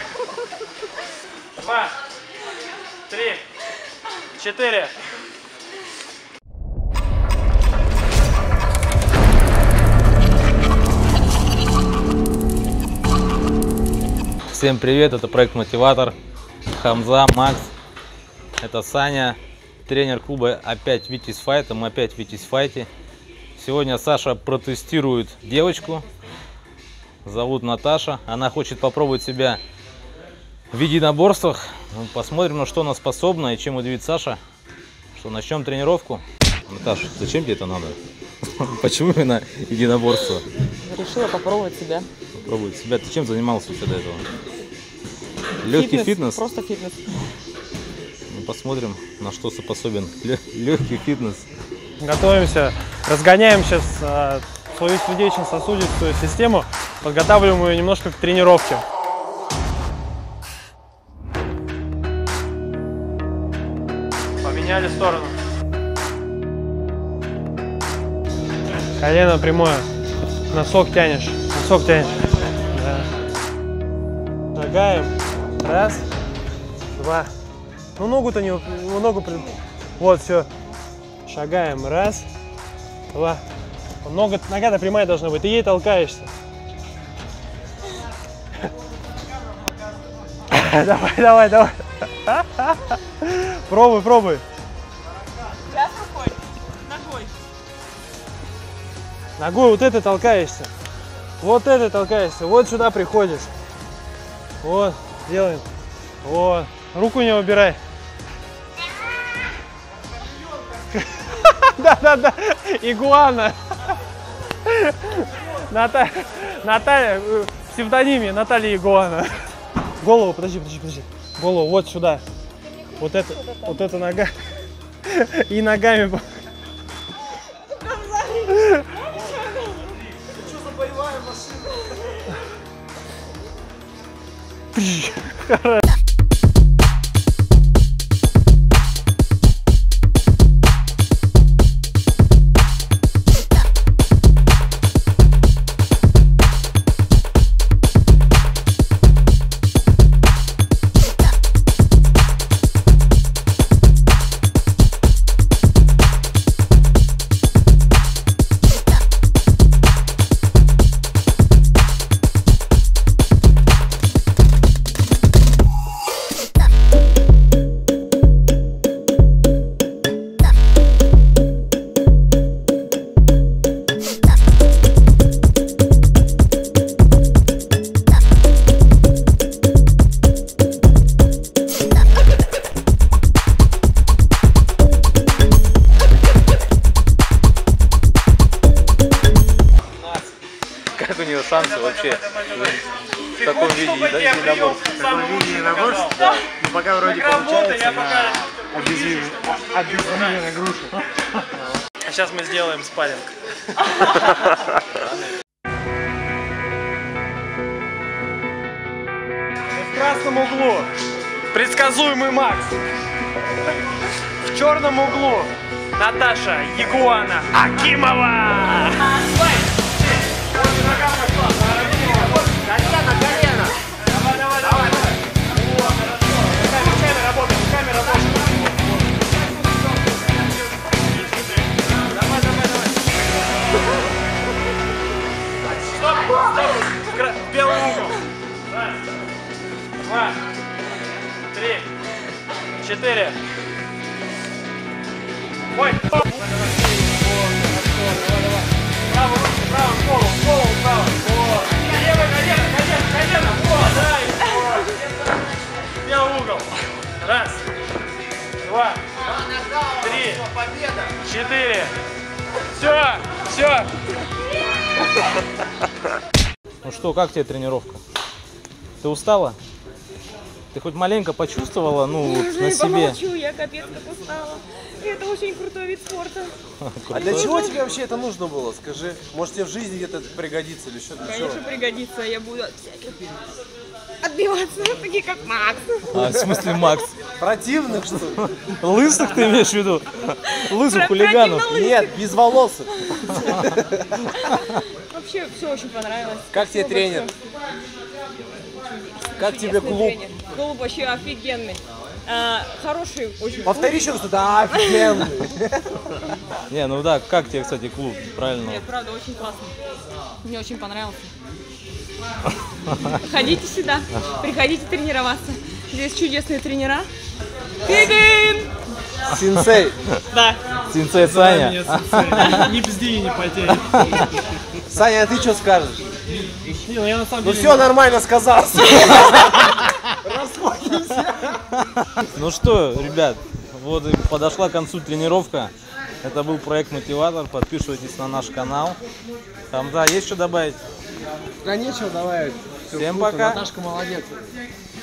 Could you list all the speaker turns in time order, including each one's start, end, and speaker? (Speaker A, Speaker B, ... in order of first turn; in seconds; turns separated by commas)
Speaker A: 1.6-1.9, Speaker A: 3.1-3.4, Speaker A: 4.4-4.9, Speaker B: 14.5-16.1, Speaker B: 16.7-17.7, Speaker B: 18.6-22.9, Speaker B: 23.6-26.1, Speaker B: 27.2-29.6, Speaker B: 30.7-34.4, Speaker B: 35.2-38.0, Speaker B: 38.6-40.4, Speaker C: 40.8-42.1, Speaker B: 42.5-44.2, Speaker B: 45.6-46.4, Speaker C: 45.7-47.0, Speaker B: 48.3-51.4, Speaker A: 52.0-58.8, Speaker A: 64.4-65.3, Speaker A: 69.0-69.9, Speaker A: 70.5-72.2, Speaker A: 72.7-73.1, Speaker A: 74.5-76.0, Speaker A: 77.0-77.3, Speaker A: 78.0-80.5, Speaker A: 81.2-82.3, Speaker A: 83.1-83.4, Speaker A: 84.0-86.3, Speaker A: 90.5-94.4, Speaker C: 95.7-97.3, Speaker A: 99.4-100.7, Speaker A: 101.4-103.5, Speaker A: 104.6-105.7, Speaker A: 106.2-107.8, Speaker A: 111.0-113.6, Speaker A: 114.6-122.2, Speaker A: 123.0-124.4, Speaker A: 125.0-126.4, Speaker C: 128.1-128.5, Speaker D: 130.4-131.7, Speaker A: 134.7-135.8, Speaker B: 190.9-192.8, Speaker B: 193.4-195.0, Speaker A: 193.4-196.3, Speaker D: 194.9-199.8, Speaker A: 196.8-200.9, Speaker A: 202.0-203.3, Speaker A: 209.7-210.9, Speaker A: 211.5-212.8, Speaker A: 214.4-219.2, Speaker A: 220.5-222.7, Speaker D: 222.7-223.7, Speaker A: 224.1-225.1, Speaker A: 225.8-228.7, Speaker A: 232.1-232.9, Speaker A: 235.8-238.1, Speaker A: 240.0-240.4, Speaker A: 241.5-241.9, Speaker A: 242.8-243.4, Speaker A: 245.7-255.1, Speaker A: 256.0-257.6, Speaker A: 258.6-259.0, Speaker A: 260.0-260.4, Speaker A: 261.2-261.9, Speaker A: 262.7-263.9, Speaker B: 266.8-268.0, Speaker B: 269.0-269.6, Speaker B: 270.7-273.2, Speaker C: 272.2-276.5, Speaker B: 276.8-277.6, Speaker C: 277.1-277.8, Speaker D: 277.1-281.6, Speaker C: 281.2-283.2, Speaker C: 284.2-286.2, Speaker B: 286.1-287.1, Speaker D: 286.1-286.6, Speaker D: 287.2-288.4, Speaker B: 288.4-291.8, Speaker C: 290.5-292.1, Speaker D: 291.6-294.0, Speaker C: 294.8-297.3, Speaker D: 296.5-297.3, Speaker C: 298.9-304.1, Speaker D: 299.4-300.2, Speaker D: 303.6-306.1, Speaker C: 304.7-305.1, Speaker B: 306.7-308.8, Speaker C: 308.6-309.7, Speaker C: 310.4-311.3, Speaker C: 313.2-317.1, Speaker C: 317.8-318.7, Speaker D: 319.3-320.0, Speaker C: 320.3-320.6, Speaker B: 320.9-322.8, Speaker A: 321.1-324.2, Speaker B: 323.9-324.2, Speaker D: 324.9-326.1, Speaker A: 326.8-327.9, Speaker D: 327.4-331.5, Speaker B: 331.8-339.0, Speaker B: 339.7-340.8, Speaker D: 341.6-344.4, Speaker B: 342.9-343.6